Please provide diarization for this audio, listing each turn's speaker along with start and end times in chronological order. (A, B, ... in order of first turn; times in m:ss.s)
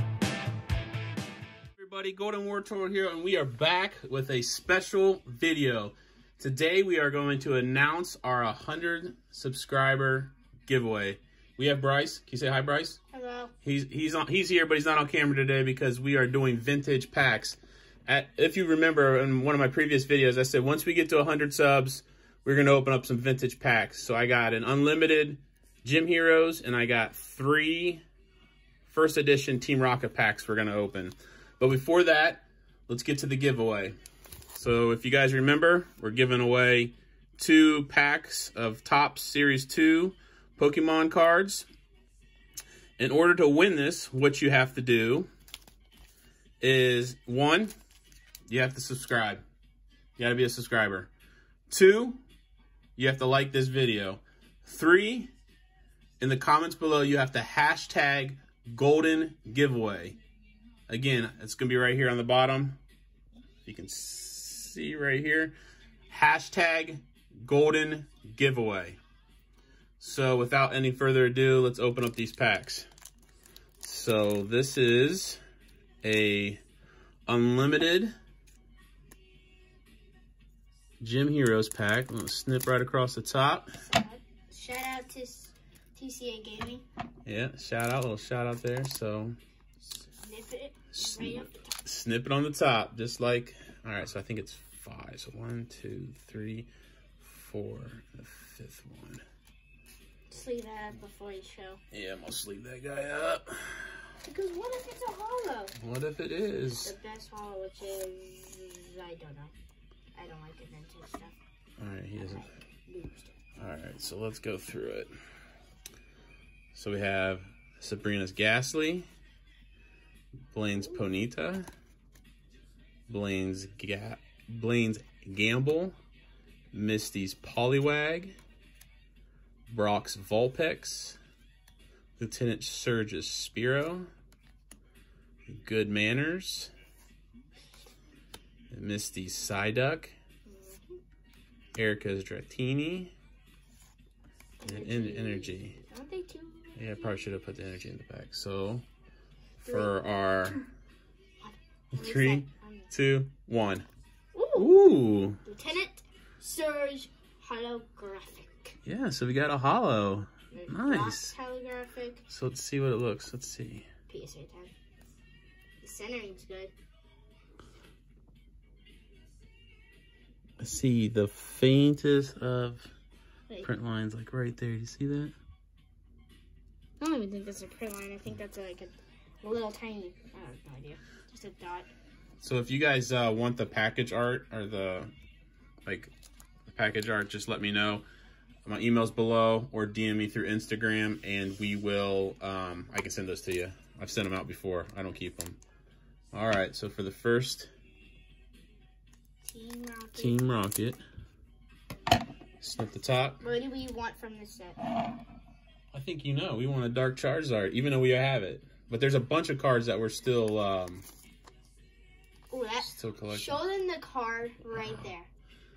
0:01.8-0:13.0 A
0:13.1-0:13.5 B
0:13.6-0:28.0 A
0:28.8-0:34.0 A
0:34.5-0:41.7 A
0:43.0-0:45.3 A
0:46.6-0:47.7 A
0:48.5-0:49.4 A
0:50.2-0:51.1 A
0:51.7-0:52.2 A
0:53.0-0:55.3 A
0:56.2-1:00.2 A
1:00.9-1:02.8 A
1:03.6-1:05.6 A
1:06.1-1:09.0 A
1:10.0-1:12.9 A
1:13.8-1:15.4 A
1:16.0-1:16.6 A
1:17.3-1:18.1 A
1:21.0-1:23.7 A
1:23.8-1:26.8 B
1:27.2-1:29.3 A
1:29.8-1:31.7 B
1:30.9-1:39.2 A
1:40.3-1:41.8 B
1:41.9-1:44.0 A
1:44.2-1:45.7 B
1:45.8-1:47.0 A
1:46.8-1:49.5 B
1:50.1-1:51.4 B
1:51.8-1:52.5 A
1:52.4-1:53.3 B
1:53.6-1:55.1 A
1:56.7-1:59.1 A
2:00.5-2:01.7 A
2:03.1-2:05.9 A
2:06.7-2:08.4 A
2:09.7-2:11.2 A
2:12.2-2:14.1 A
2:15.5-2:16.7 A
2:18.7-2:20.1 A
2:20.4-2:21.0 B
2:21.7-2:23.1 A
2:24.6-2:27.4 B
2:24.6-2:25.8 A
2:26.8-2:28.8 A
2:29.6-2:30.6 A
2:29.6-2:29.9 B
2:31.4-2:32.9 B
2:31.9-2:33.9 A
2:34.3-2:34.7 B
2:34.6-2:35.4 A
2:35.4-2:38.8 B
2:38.8-2:41.3 A
2:40.5-2:42.2 B
2:42.3-2:43.9 A
2:44.1-2:44.7 B
2:45.8-2:46.7 B
2:50.6-2:52.9 A
2:53.6-2:55.3 A
2:57.0-3:01.9 B
3:02.4-3:05.1 A
3:05.8-3:06.1 A
3:06.7-3:08.0 A
3:08.6-3:15.6 A
3:16.3-3:17.7 A
3:19.4-3:20.4 B
3:20.1-3:21.0 A
3:22.6-3:23.4 A
3:23.4-3:24.8 B
3:25.9-3:31.0 A
3:32.5-3:35.3 B
3:32.8-3:33.6 A
3:34.7-3:35.1 A